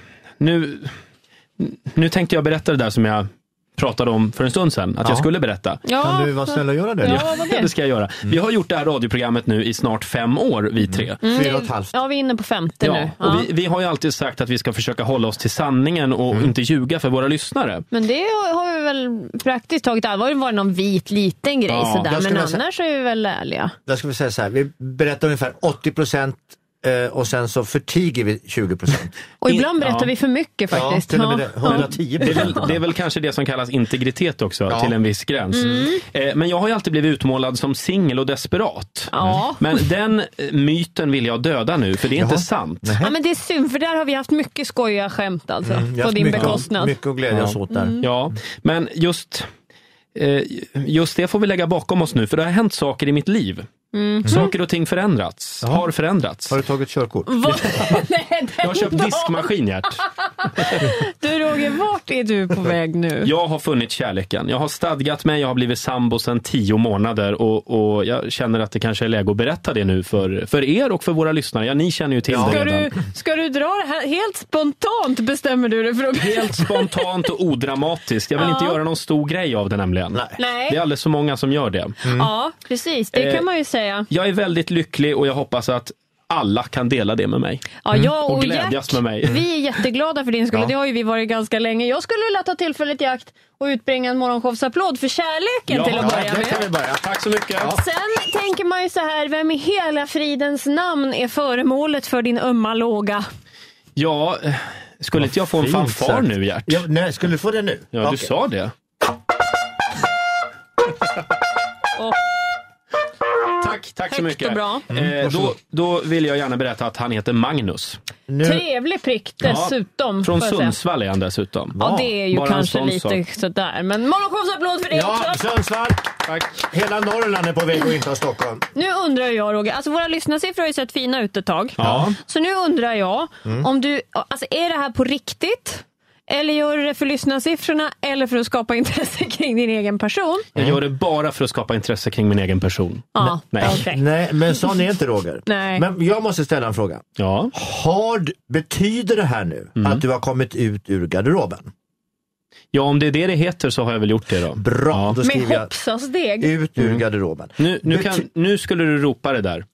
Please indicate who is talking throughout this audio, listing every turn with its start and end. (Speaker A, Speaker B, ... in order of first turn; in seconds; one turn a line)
Speaker A: 0.4-0.9
Speaker A: 1.6-3.3
Speaker A: 3.8-5.8
Speaker B: 5.8-7.7
Speaker C: 6.0-7.2
Speaker A: 7.0-11.2
Speaker C: 10.9-11.9
Speaker B: 11.2-13.5
Speaker A: 12.8-17.8
Speaker B: 17.9-23.7
Speaker A: 21.7-22.1
Speaker C: 22.0-22.6
Speaker C: 23.9-29.1
Speaker B: 29.4-32.7
Speaker A: 29.4-30.1
Speaker C: 30.7-32.8
Speaker A: 31.6-43.0
Speaker C: 34.7-34.9
Speaker B: 35.5-36.0
Speaker B: 39.1-39.9
Speaker C: 42.1-43.1
Speaker B: 43.0-47.0
Speaker C: 45.6-48.0
Speaker A: 46.3-46.6
Speaker A: 47.3-49.5
Speaker B: 47.7-48.0
Speaker A: 50.1-53.7
Speaker B: 53.9-54.5
Speaker A: 54.2-56.6
Speaker C: 54.2-54.5
Speaker C: 55.6-55.9
Speaker C: 56.5-57.3
Speaker B: 57.3-59.5
Speaker A: 57.5-58.0
Speaker A: 58.6-60.9
Speaker B: 60.0-63.3
Speaker A: 63.2-72.9
Speaker C: 72.3-72.6
Speaker B: 72.4-77.1
Speaker A: 76.1-82.0
Speaker B: 78.3-78.8
Speaker C: 80.1-80.4
Speaker B: 80.4-80.8
Speaker C: 82.0-82.3
Speaker B: 82.0-84.1
Speaker A: 83.1-83.5
Speaker A: 84.1-89.4
Speaker B: 87.8-96.6
Speaker A: 95.7-97.8
Speaker C: 96.0-97.0
Speaker B: 97.6-103.2
Speaker A: 104.0-106.8
Speaker C: 105.2-108.3
Speaker A: 107.9-108.7
Speaker A: 113.6-118.0
Speaker B: 114.1-114.9
Speaker C: 114.9-115.5
Speaker C: 118.3-118.6
Speaker B: 118.4-120.8
Speaker A: 119.4-123.2
Speaker C: 121.7-122.1
Speaker B: 121.8-125.4
Speaker C: 124.9-128.6
Speaker A: 126.2-126.6
Speaker B: 128.7-140.5
Speaker A: 131.8-132.2
Speaker C: 131.8-132.1
Speaker A: 140.5-143.8
Speaker B: 143.1-144.0
Speaker C: 143.2-151.7
Speaker B: 145.4-145.8
Speaker A: 147.2-147.5
Speaker A: 149.8-150.0
Speaker A: 152.7-155.2
Speaker C: 154.6-155.7
Speaker B: 155.2-156.5
Speaker C: 156.4-158.2
Speaker A: 156.8-157.0
Speaker A: 157.6-159.6